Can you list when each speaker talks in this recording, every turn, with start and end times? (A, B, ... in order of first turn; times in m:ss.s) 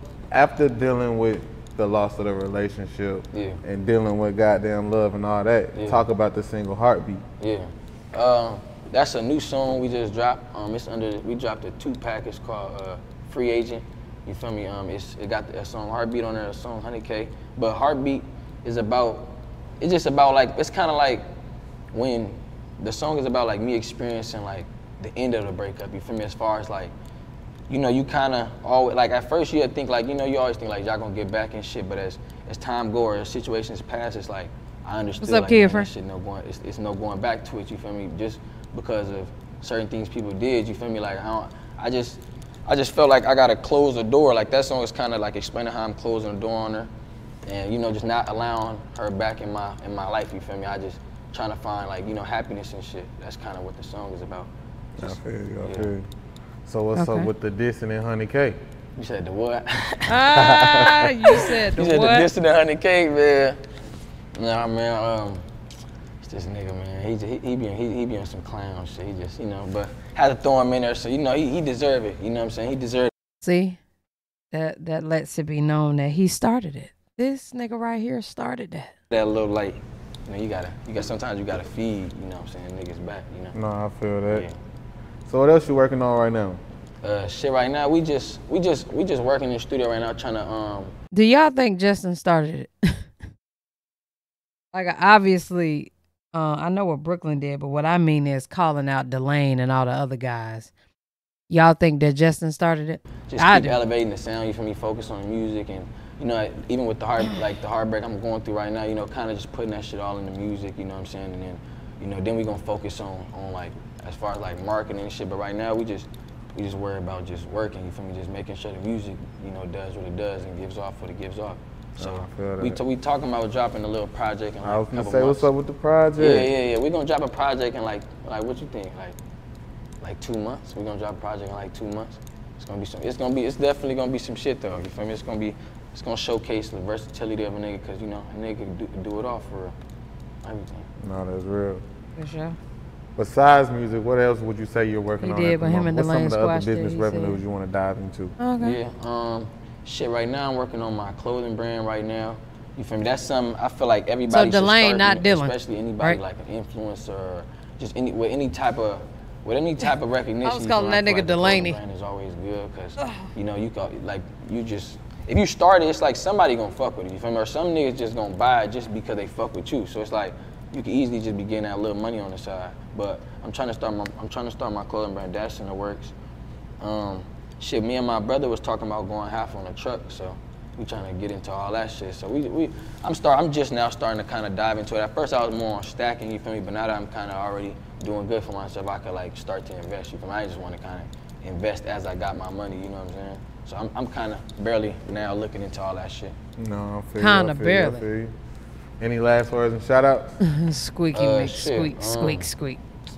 0:00.3-0:07.2 A
0:03.3-0:03.6 B
0:05.7-0:06.0 B
0:07.4-0:21.3 B
0:21.9-0:26.9 B
0:27.7-0:46.9 B
0:35.2-0:35.9 C
0:47.5-0:55.9 B
0:55.0-0:56.1 A
0:56.7-0:58.6 A
0:57.0-0:57.3 C
0:59.0-1:03.6 B
1:00.1-1:02.3 C
1:00.4-1:00.8 A
1:04.4-1:05.4 B
1:06.2-1:13.1 B
1:13.4-1:13.8 C
1:14.5-1:18.9 C
1:19.1-1:23.6 B
1:23.5-1:24.5 A
1:24.3-1:24.6 B
1:25.3-1:26.6 A
1:27.0-1:30.9 B
1:31.1-1:33.1 C
1:34.7-1:40.7 C
1:41.5-1:43.8 C
1:43.3-2:05.5 B
2:02.0-2:02.8 A
2:04.6-2:06.5 A
2:06.2-2:09.2 B
2:10.0-2:19.8 B
2:20.4-2:20.9 B
2:21.0-2:21.8 A
2:22.2-2:22.6 C
2:23.2-2:28.4 A
2:25.2-2:27.4 C
2:28.4-2:28.8 C
2:28.6-2:56.1 B
2:34.3-2:36.2 C
2:40.4-2:41.8 C
2:43.0-2:43.3 C
2:56.8-3:16.4 B
3:16.6-3:18.4 A
3:17.2-3:18.0 C
3:19.0-3:20.4 A
3:20.4-3:22.8 C
3:21.1-3:22.5 B